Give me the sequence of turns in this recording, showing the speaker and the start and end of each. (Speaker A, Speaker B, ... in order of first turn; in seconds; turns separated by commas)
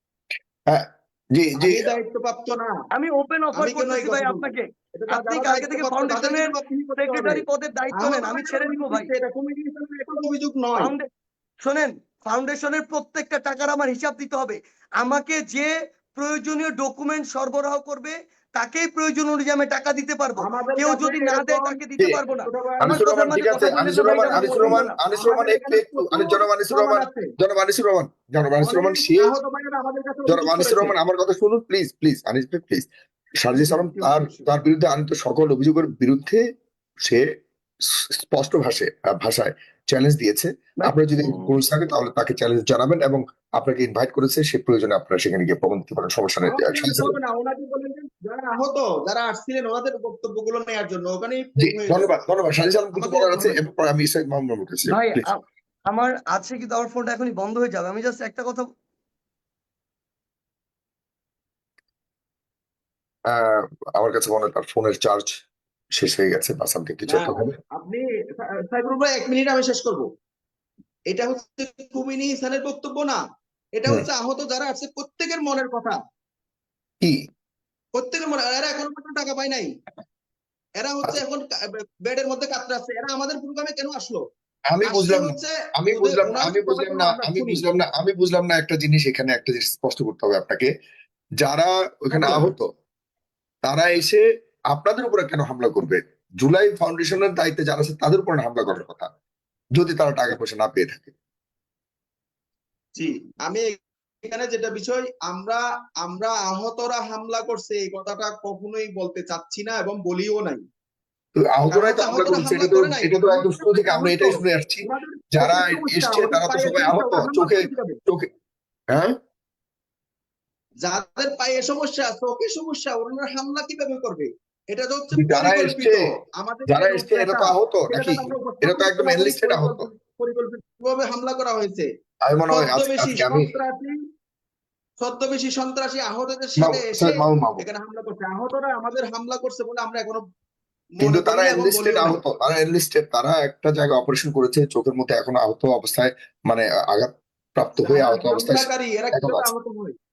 Speaker A: 0.7-1.9, Speaker B: 1.6-2.7, Speaker C: 2.9-9.1, Speaker B: 3.5-7.4, Speaker B: 8.0-10.9, Speaker C: 10.8-11.1, Speaker C: 11.6-24.9, Speaker B: 20.4-23.0, Speaker A: 22.8-29.3, Speaker B: 23.6-27.3, Speaker B: 28.6-30.9, Speaker A: 30.3-32.9, Speaker A: 33.4-36.4, Speaker B: 33.5-34.5, Speaker A: 37.8-47.1, Speaker C: 40.8-41.6, Speaker B: 46.4-52.2, Speaker A: 51.6-55.3, Speaker B: 52.9-53.6, Speaker C: 54.9-58.7, Speaker A: 63.3-65.4, Speaker A: 66.0-67.5, Speaker B: 67.1-70.1, Speaker B: 71.1-73.2, Speaker B: 73.8-76.0, Speaker B: 77.9-79.7, Speaker B: 80.8-81.4, Speaker B: 82.0-84.2, Speaker A: 84.7-90.7, Speaker B: 84.8-87.6, Speaker A: 91.4-92.7, Speaker B: 92.1-92.5, Speaker A: 93.6-99.1, Speaker A: 99.8-101.1, Speaker B: 103.0-103.7, Speaker B: 104.3-110.6, Speaker A: 111.3-118.3, Speaker B: 111.7-118.0, Speaker B: 120.8-131.9, Speaker A: 125.1-126.1, Speaker A: 126.7-129.9, Speaker A: 132.3-133.5, Speaker B: 132.5-133.9, Speaker B: 135.0-140.2, Speaker A: 136.6-137.6, Speaker B: 141.0-142.2, Speaker A: 141.0-149.5, Speaker B: 147.8-149.9